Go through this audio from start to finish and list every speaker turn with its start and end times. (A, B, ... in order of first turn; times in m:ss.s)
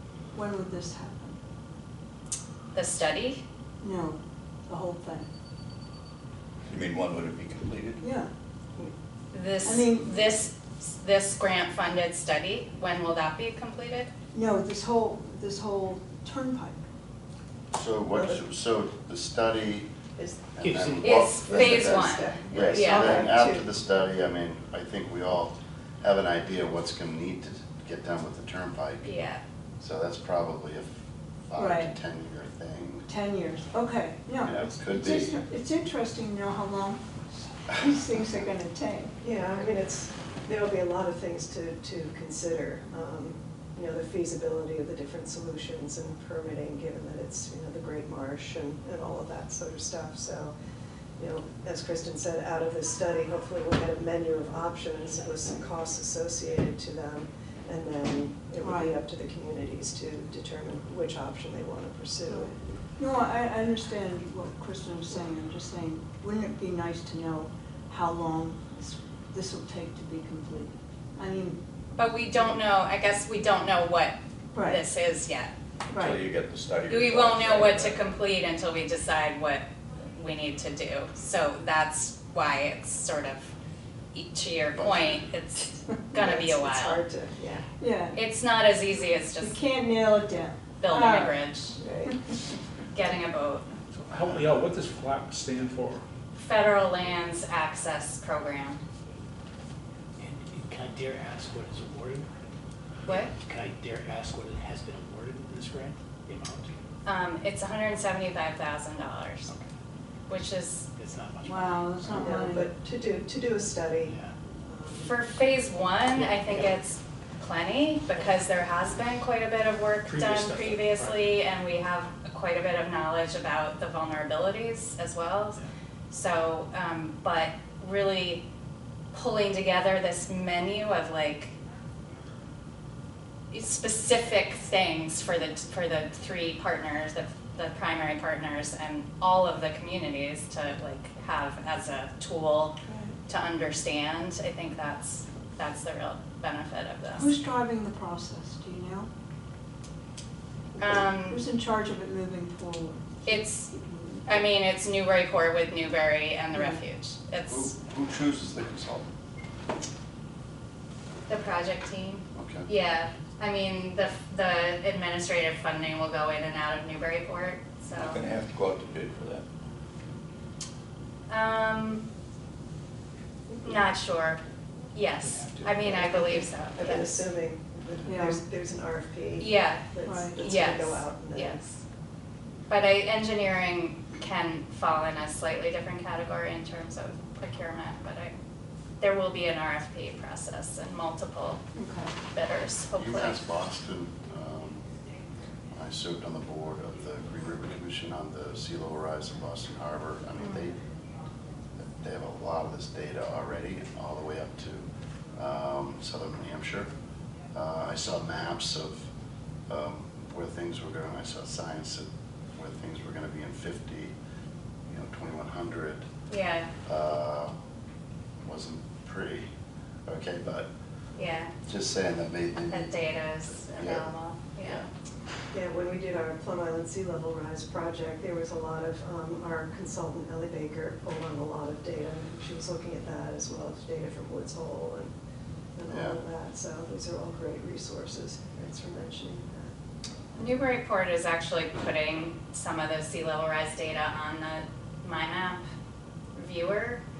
0:00.3-0:01.4 A
0:02.7-0:03.4 B
0:03.8-0:05.3 A
0:06.7-0:08.1 C
0:08.0-0:08.3 A
0:09.3-0:14.1 B
0:09.6-0:10.2 A
0:14.3-0:16.8 A
0:17.7-0:19.9 D
0:18.1-0:18.4 E
0:20.5-0:29.1 D
0:20.6-0:21.2 F
0:21.0-0:23.2 B
0:21.2-0:23.7 E
0:29.0-0:29.4 B
0:29.8-0:33.1 D
0:31.6-0:32.0 A
0:33.1-0:37.0 A
0:34.4-0:35.4 D
0:37.5-0:39.2 A
0:39.2-0:50.5 E
0:51.2-1:02.5 E
0:58.6-0:59.0 A
1:02.2-1:11.6 A
1:11.9-1:15.5 B
1:14.5-1:14.8 A
1:15.9-1:18.0 C
1:15.9-1:16.2 A
1:16.9-1:23.5 B
1:24.1-1:27.0 B
1:24.7-1:25.2 D
1:26.1-1:27.7 E
1:27.8-1:28.2 A
1:28.1-1:29.6 B
1:29.4-1:31.4 A
1:30.8-1:31.8 B
1:31.8-1:32.1 E
1:32.9-1:33.6 B
1:33.9-1:36.0 G
1:36.3-1:38.8 B
1:40.2-1:42.3 F
1:43.0-1:46.7 F
1:47.0-1:49.5 B
1:50.3-1:50.9 B
1:51.0-1:52.3 F
1:51.4-1:52.7 A
1:52.1-1:55.1 E
1:54.1-1:54.3 F
1:55.0-2:05.6 B
1:56.1-1:56.7 F
2:00.1-2:01.3 F
2:06.1-2:08.4 B
2:09.1-2:11.5 B
2:13.5-2:22.8 B
2:22.8-2:23.1 A
2:23.3-2:27.4 B
2:27.2-2:29.1 A
2:30.8-2:31.4 B
2:31.1-2:34.3 A
2:33.2-2:33.7 B
2:34.2-2:37.7 B
2:37.5-2:39.1 D
2:41.3-2:48.2 B
2:42.3-2:42.7 D
2:47.9-2:49.4 C
2:51.3-2:52.0 B
2:53.6-2:54.4 B
2:54.9-2:57.2 B
2:55.7-3:01.6 E
2:58.0-2:58.4 A
2:59.4-3:01.8 B
3:00.0-3:00.5 A
3:02.7-3:08.4 B
3:09.0-3:11.6 B
3:11.7-3:12.1 A
3:12.3-3:13.4 B
3:12.9-3:14.8 D
3:15.7-3:20.8 D
3:21.8-3:24.8 D
3:25.4-3:26.9 D
3:27.5-3:29.0 D
3:29.7-3:34.1 D
3:34.9-3:36.0 D
3:36.3-3:36.7 B
3:36.8-3:37.5 D
3:38.4-3:39.5 D
3:40.0-3:40.7 D
3:41.2-3:41.5 B
3:41.6-3:43.0 D
3:42.7-3:44.8 B
3:43.6-3:44.9 D
3:45.5-3:55.1 E
3:55.8-3:59.7 E
3:55.9-3:56.2 D
4:00.4-4:05.6 B
4:06.4-4:07.0 B